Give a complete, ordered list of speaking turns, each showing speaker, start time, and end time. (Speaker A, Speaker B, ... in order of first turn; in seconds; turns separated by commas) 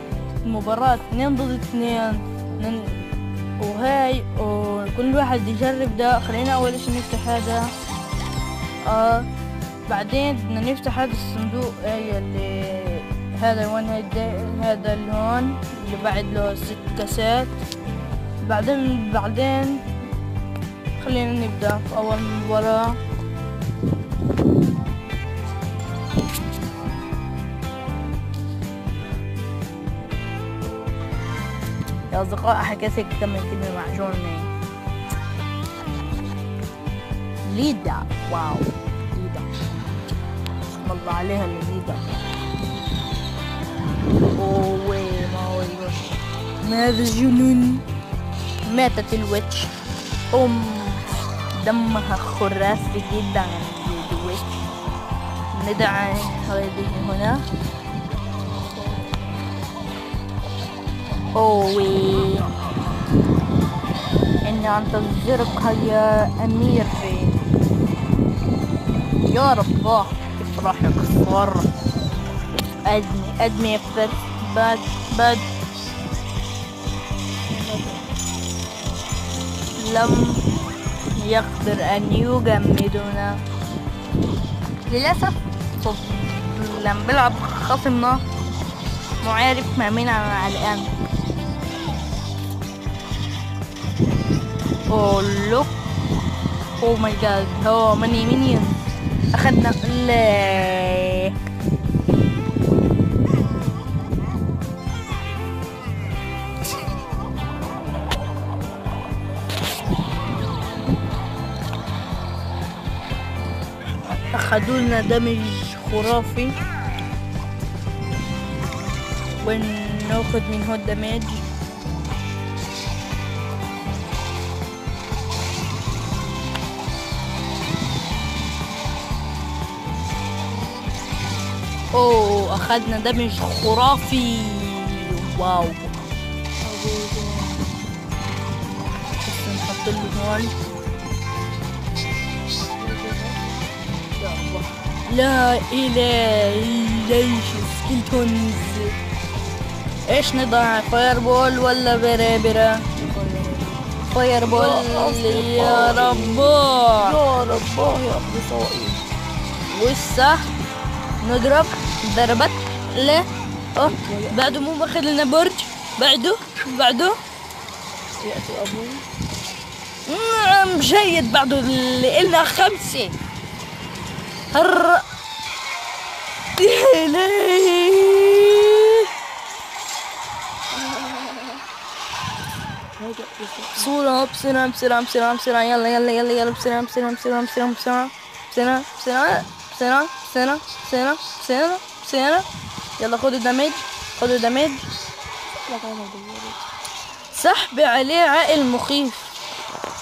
Speaker A: 0.4-3.0, Speaker A: 3.6-7.7, Speaker A: 8.8-9.3, Speaker A: 9.9-17.5, Speaker A: 18.4-19.8, Speaker A: 21.0-23.0, Speaker A: 32.1-34.5, Speaker A: 37.4-39.5, Speaker A: 40.8-42.0, Speaker A: 44.4-47.8, Speaker A: 48.7-49.7, Speaker A: 50.3-54.4, Speaker A: 55.5-57.4, Speaker A: 61.4-62.5, Speaker A: 64.4-67.5, Speaker A: 69.2-71.7, Speaker A: 72.8-75.5, Speaker A: 79.8-80.4, Speaker A: 81.2-83.4, Speaker A: 84.9-88.2, Speaker A: 89.2-90.9, Speaker A: 94.9-95.7, Speaker A: 96.8-98.8, Speaker A: 99.3-101.3, Speaker A: 114.3-116.5, Speaker A: 119.4-121.4, Speaker A: 131.9-135.9, Speaker B: 136.6-137.7, Speaker A: 139.2-140.5, Speaker B: 142.8-143.6, Speaker A: 144.2-149.0, Speaker A: 150.1-157.2, Speaker B: 154.5-159.0, Speaker A: 159.7-160.4, Speaker A: 161.2-167.2, Speaker B: 163.8-164.6, Speaker B: 168.2-169.1, Speaker A: 170.1-173.2, Speaker A: 174.5-175.0, Speaker A: 176.6-179.1, Speaker B: 183.0-183.9, Speaker A: 183.8-192.5, Speaker A: 193.0-194.8, Speaker B: 195.6-196.6, Speaker A: 197.3-199.3